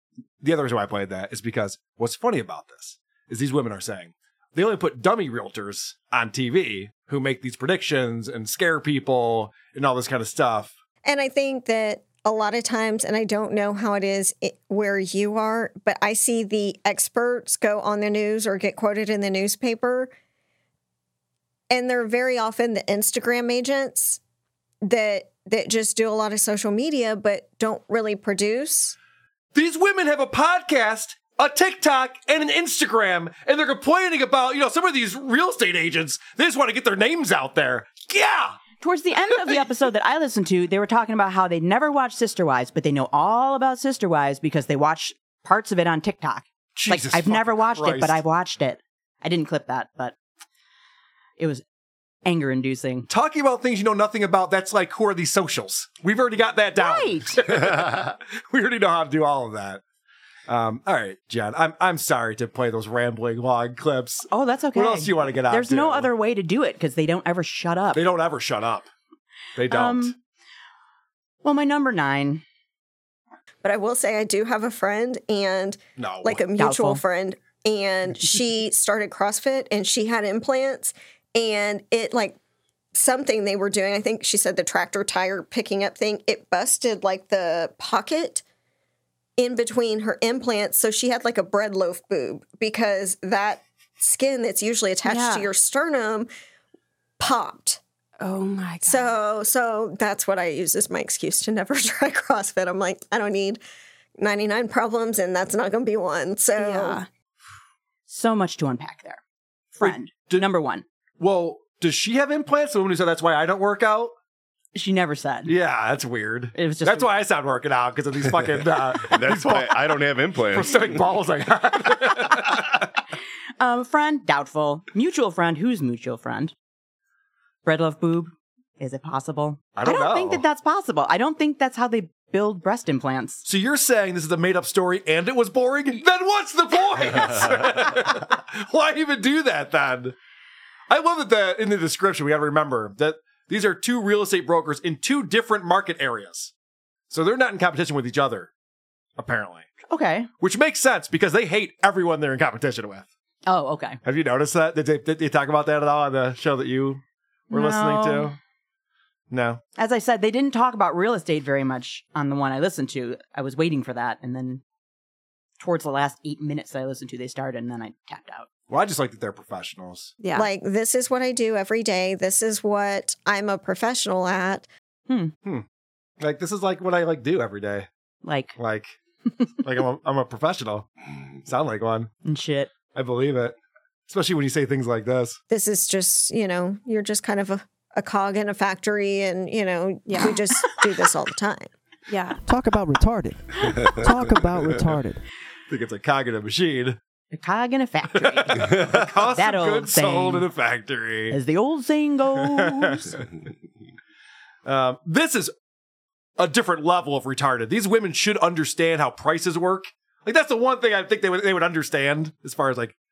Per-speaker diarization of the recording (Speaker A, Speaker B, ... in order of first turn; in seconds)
Speaker A: 0.4-10.7, 29.6-38.6, 46.8-48.2, 53.1-59.8, 60.5-66.1, 68.0-68.9, 69.6-70.1, 76.0-76.4, 109.8-110.5, 111.2-114.1, 115.5-119.9, 120.5-122.7, 129.8-130.4, 133.4-140.2, 140.9-146.5, 147.1-148.5, 149.2-149.7, 150.4-153.1, 154.0-158.3, 159.3-159.6, 168.7-170.1, 176.2-177.9, 178.6-179.0, 179.6-180.9, 181.4-182.1, 182.9-183.6, 184.1-185.4, 195.7-197.0, 198.3-201.4, 202.6-203.2, 204.7-205.5, 206.4-212.9
Speaker B: 11.0-20.1, 21.7-24.2, 24.8-29.0, 73.6-82.4, 82.9-88.4, 89.4-96.3, 97.2-97.8, 98.8-103.6, 104.2-107.0, 170.3-174.7, 185.5-191.7
Speaker C: 38.8-50.1, 51.4-51.6, 52.2-53.1, 56.8-57.4, 64.3-68.0, 69.7-70.1, 71.4-72.4, 76.5-77.0, 108.1-109.2, 109.8-110.8, 114.8-115.5, 116.5-117.1, 123.6-126.5, 127.7-133.4, 149.9-150.3, 153.5-154.0, 157.5-158.3, 159.8-164.6, 165.6-168.5, 175.1-175.3, 178.2-178.5, 182.2-182.7, 197.3-198.7, 199.3-200.5, 201.3-203.1
Speaker D: 95.1-95.5, 98.2-99.2, 106.6-107.1, 170.2-170.5, 190.1-190.4, 192.1-192.4
Speaker E: 119.0-121.0
Speaker F: 192.4-195.2